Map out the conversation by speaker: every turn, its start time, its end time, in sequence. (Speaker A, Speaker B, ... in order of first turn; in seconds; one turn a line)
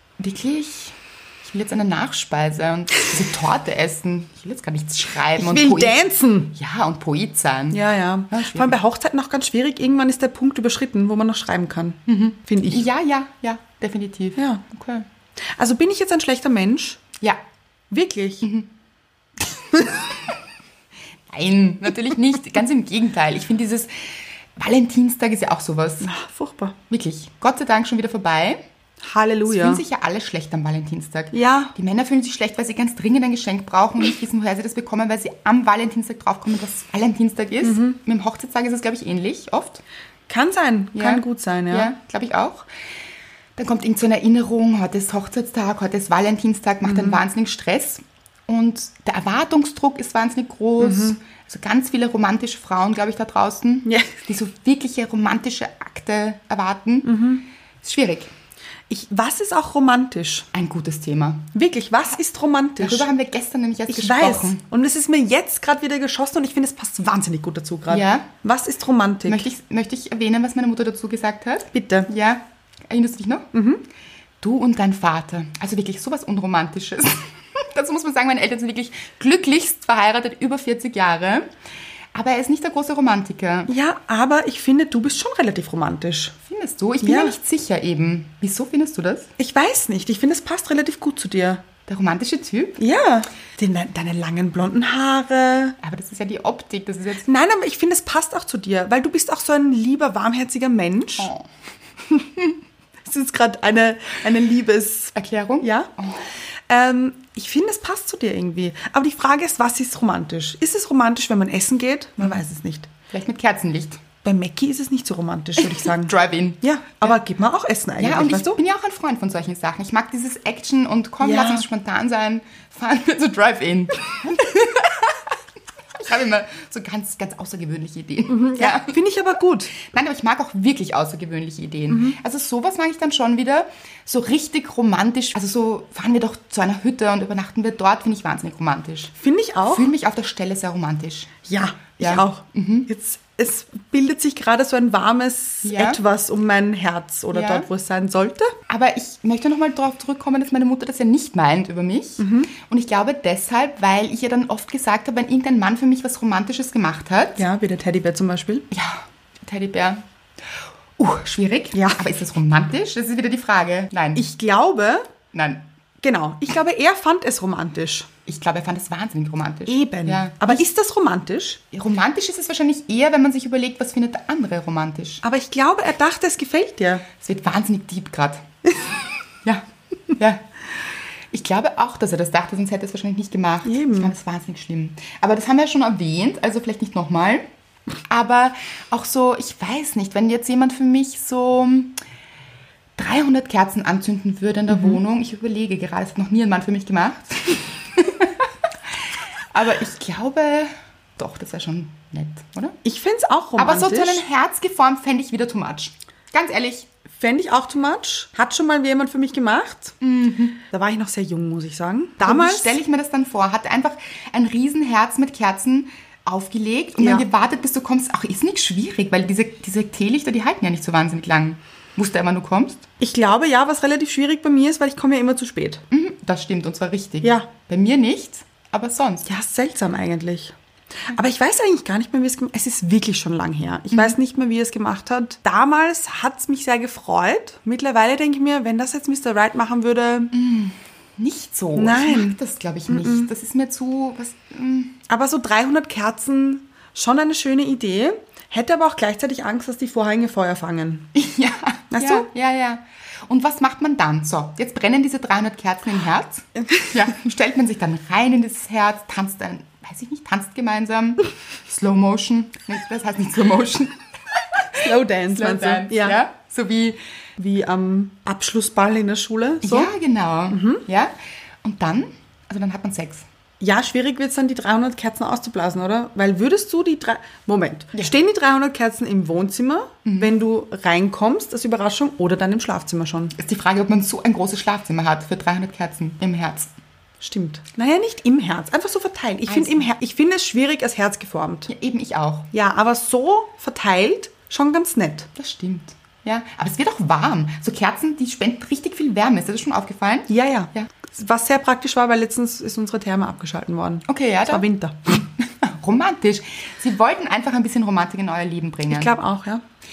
Speaker A: 0.2-6.0
Speaker B: 5.4-6.5
Speaker A: 6.5-8.8
Speaker B: 7.7-12.9
Speaker A: 12.1-15.1
Speaker B: 14.4-14.6
Speaker B: 15.5-17.0
Speaker B: 17.9-18.5
Speaker A: 18.4-18.7
Speaker A: 19.8-20.2
Speaker A: 21.3-26.1
Speaker B: 26.0-26.8
Speaker A: 26.9-28.6
Speaker B: 29.0-29.8
Speaker A: 29.5-39.8
Speaker B: 31.3-31.7
Speaker B: 37.6-38.0
Speaker B: 40.3-41.9
Speaker A: 41.0-42.7
Speaker A: 43.6-58.3
Speaker B: 46.9-47.2
Speaker B: 50.8-51.2
Speaker B: 53.9-54.2
Speaker B: 57.0-57.4
Speaker B: 58.9-60.5
Speaker A: 60.5-61.5
Speaker B: 61.5-63.1
Speaker A: 62.8-64.6
Speaker B: 63.9-69.5
Speaker A: 67.9-68.3
Speaker A: 69.3-73.5
Speaker B: 71.7-72.1
Speaker B: 73.5-73.8
Speaker A: 74.4-81.5
Speaker A: 82.1-83.7
Speaker B: 83.7-86.3
Speaker A: 86.4-89.3
Speaker B: 87.0-87.4
Speaker B: 89.4-91.7
Speaker A: 91.9-92.8
Speaker B: 92.8-95.8
Speaker A: 95.8-97.3
Speaker B: 97.2-101.3
Speaker A: 101.2-101.5
Speaker B: 103.0-105.9
Speaker A: 105.2-106.3
Speaker B: 106.7-112.9
Speaker A: 113.1-114.0
Speaker B: 114.2-118.6
Speaker A: 115.6-117.2
Speaker A: 118.0-125.2
Speaker B: 121.2-121.7
Speaker A: 126.0-129.0
Speaker B: 128.3-129.7
Speaker A: 129.7-139.1
Speaker B: 131.9-132.2
Speaker B: 139.2-139.9
Speaker A: 139.7-141.4
Speaker B: 141.5-148.5
Speaker A: 142.0-142.9
Speaker A: 145.6-146.0
Speaker A: 147.3-147.7
Speaker A: 148.7-157.4
Speaker B: 152.2-152.5
Speaker B: 157.4-158.7
Speaker A: 158.7-160.0
Speaker A: 161.0-164.2
Speaker B: 161.7-162.1
Speaker B: 164.2-165.1
Speaker A: 165.3-165.6
Speaker B: 166.0-168.1
Speaker A: 168.3-170.7
Speaker B: 169.7-171.6
Speaker A: 171.7-175.2
Speaker B: 175.2-177.1
Speaker A: 177.2-178.4
Speaker A: 179.4-180.4
Speaker A: 181.3-187.4
Speaker B: 183.7-184.2
Speaker A: 188.1-192.0
Speaker A: 193.0-198.4
Speaker B: 194.7-195.0
Speaker A: 199.5-202.8
Speaker B: 202.8-204.2
Speaker A: 203.6-206.9
Speaker B: 207.1-210.0
Speaker A: 210.0-210.6
Speaker B: 210.7-212.8
Speaker A: 212.2-222.9
Speaker B: 217.0-217.3
Speaker B: 223.0-225.8
Speaker A: 225.9-229.3
Speaker B: 227.2-227.5
Speaker B: 229.2-230.6
Speaker B: 231.1-240.3
Speaker A: 240.3-245.0
Speaker B: 241.8-242.4
Speaker B: 242.9-243.3
Speaker B: 245.1-251.1
Speaker A: 251.1-264.0
Speaker B: 251.9-252.3
Speaker A: 264.6-267.0
Speaker B: 264.8-266.2
Speaker B: 267.4-269.9
Speaker A: 269.6-273.2
Speaker B: 270.5-270.8
Speaker B: 273.6-283.3
Speaker A: 280.1-280.3
Speaker A: 283.4-286.7
Speaker B: 287.2-291.7
Speaker A: 289.5-289.9
Speaker A: 291.7-292.5
Speaker B: 292.5-295.3
Speaker A: 295.4-300.9
Speaker B: 300.3-305.2
Speaker A: 304.1-304.7
Speaker A: 305.4-309.1
Speaker B: 308.9-309.6